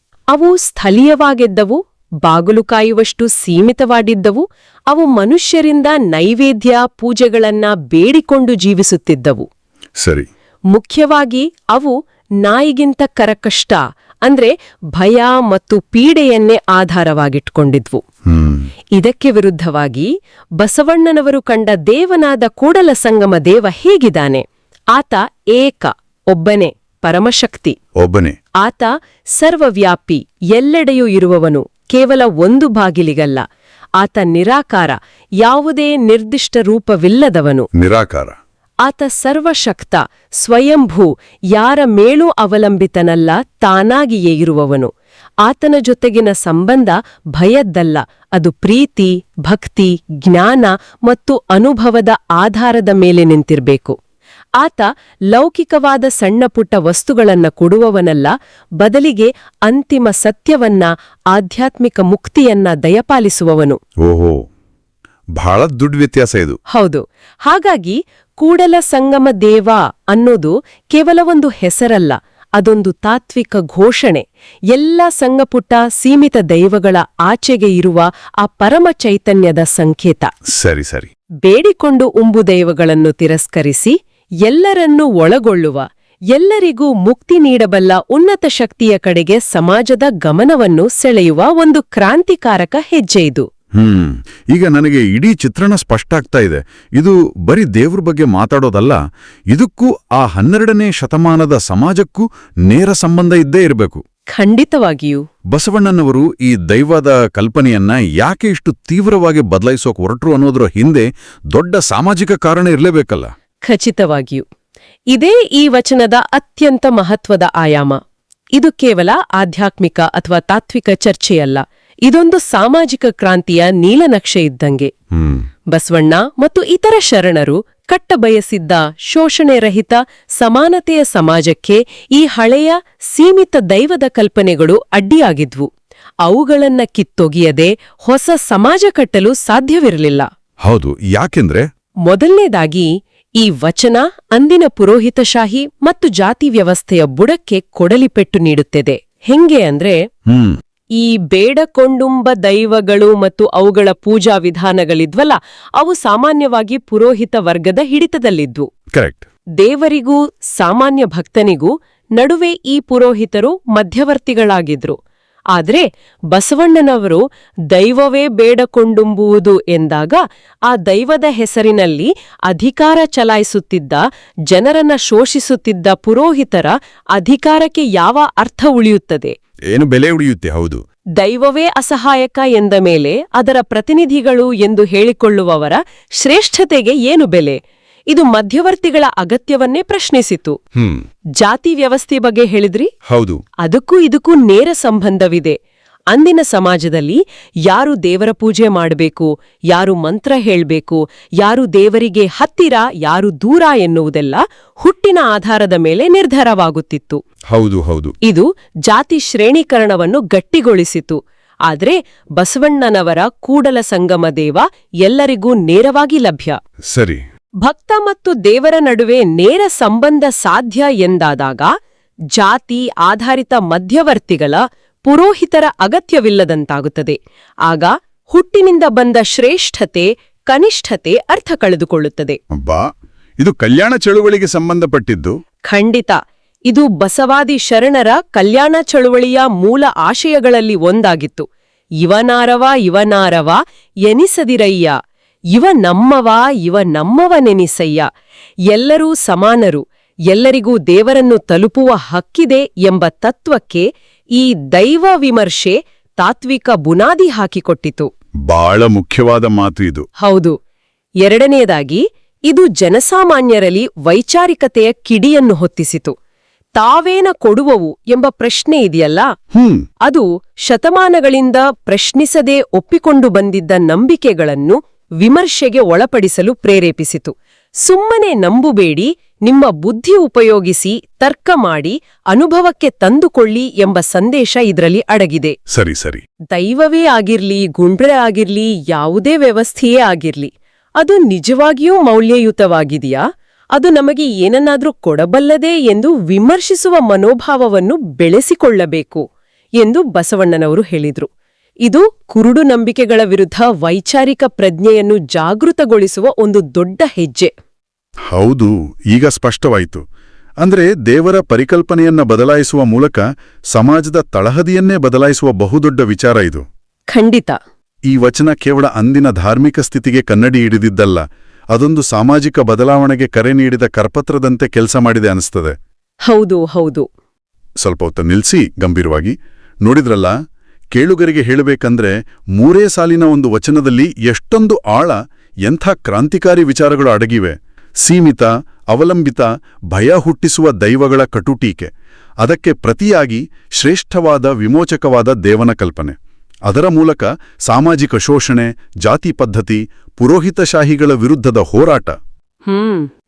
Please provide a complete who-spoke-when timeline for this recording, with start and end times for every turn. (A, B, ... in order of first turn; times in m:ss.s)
0:00.3-0:09.4 A
0:10.0-0:10.3 B
0:10.7-0:18.0 A
0:18.3-0:18.7 B
0:19.0-0:27.8 A
0:28.0-0:28.4 B
0:28.6-0:33.4 A
0:34.0-0:37.7 A
0:37.8-0:38.3 B
0:38.8-0:44.9 A
0:45.4-0:54.0 A
0:54.6-1:03.8 A
1:04.0-1:04.4 B
1:05.4-1:06.6 B
1:06.7-1:20.3 A
1:20.5-1:21.1 B
1:21.4-1:23.9 A
1:24.4-1:33.5 A
1:33.8-1:39.0 B
1:39.5-1:44.0 B
1:44.3-1:45.2 A
1:45.5-1:53.3 B
1:53.7-1:54.4 A
1:55.1-1:58.0 A
1:58.6-2:04.9 A
2:05.1-2:05.4 B
2:05.7-2:15.7 A
2:16.2-2:20.3 A
2:20.6-2:21.6 B
2:22.1-2:22.9 A
2:23.4-2:30.0 A
2:30.3-2:30.6 B
2:31.0-2:38.7 A
2:38.9-2:39.2 B
2:39.6-2:45.0 A
2:45.5-2:59.3 A
2:59.7-3:00.8 B
3:01.2-3:07.6 A
3:08.1-3:10.6 A
3:10.8-3:11.0 B
3:11.4-3:12.9 A
3:13.1-3:13.4 B
3:13.6-3:15.6 A
3:16.1-3:27.2 A
3:27.5-3:28.1 B
3:28.2-3:36.6 A
3:36.9-3:37.2 B
3:37.6-3:41.7 A
3:42.3-3:52.4 A
3:52.5-3:52.9 B
3:53.4-3:55.4 B
3:55.7-3:56.2 A
3:56.7-4:01.5 A
4:02.0-4:04.9 A
4:05.5-4:08.1 A
4:08.7-4:18.1 A
4:18.5-4:20.1 B
4:20.2-4:20.6 A
4:21.2-4:26.1 A
4:26.8-4:29.3 A
4:29.5-4:29.8 B
4:30.0-4:45.6 A
4:45.7-4:46.2 B
4:46.5-4:53.2 A
4:53.8-4:59.2 A
4:59.8-5:01.3 A
5:01.8-5:07.5 A
5:08.3-5:10.0 B
5:10.6-5:16.6 B
5:17.1-5:17.6 A
5:18.1-5:25.8 B
5:26.3-5:27.0 A
5:27.8-5:30.3 B
5:30.9-5:41.9 B
5:42.4-5:52.2 B
5:52.6-5:53.1 A